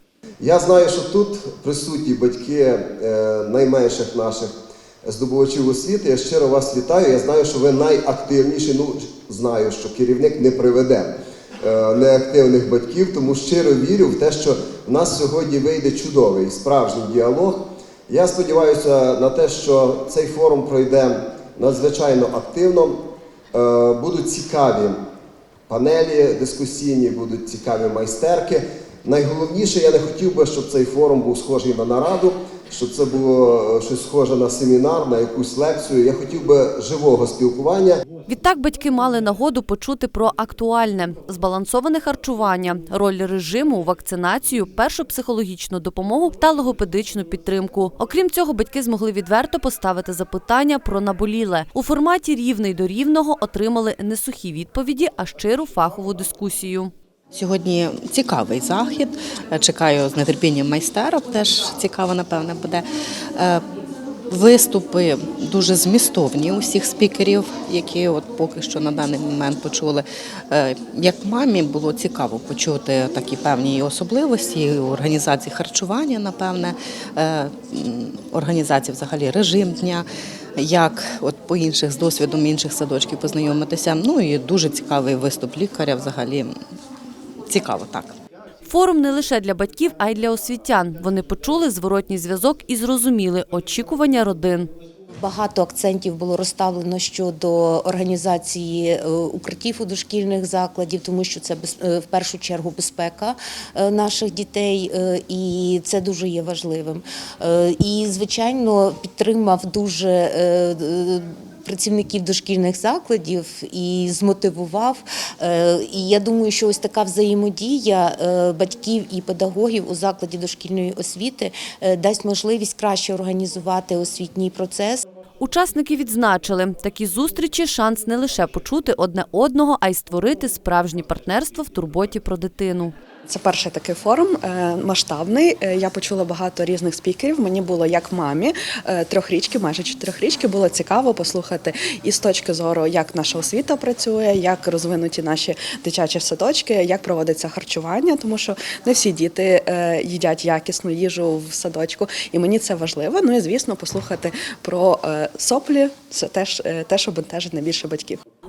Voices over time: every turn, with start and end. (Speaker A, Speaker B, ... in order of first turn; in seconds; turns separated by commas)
Speaker A: 0.4-4.5, Speaker A: 5.0-11.1, Speaker A: 11.6-23.0, Speaker A: 23.5-24.9, Speaker A: 25.7-38.0, Speaker B: 38.3-56.9, Speaker C: 57.3-63.6, Speaker C: 64.3-86.5, Speaker C: 87.5-88.1, Speaker B: 88.6-94.7, Speaker D: 95.2-125.0, Speaker B: 125.4-132.9, Speaker E: 133.3-158.2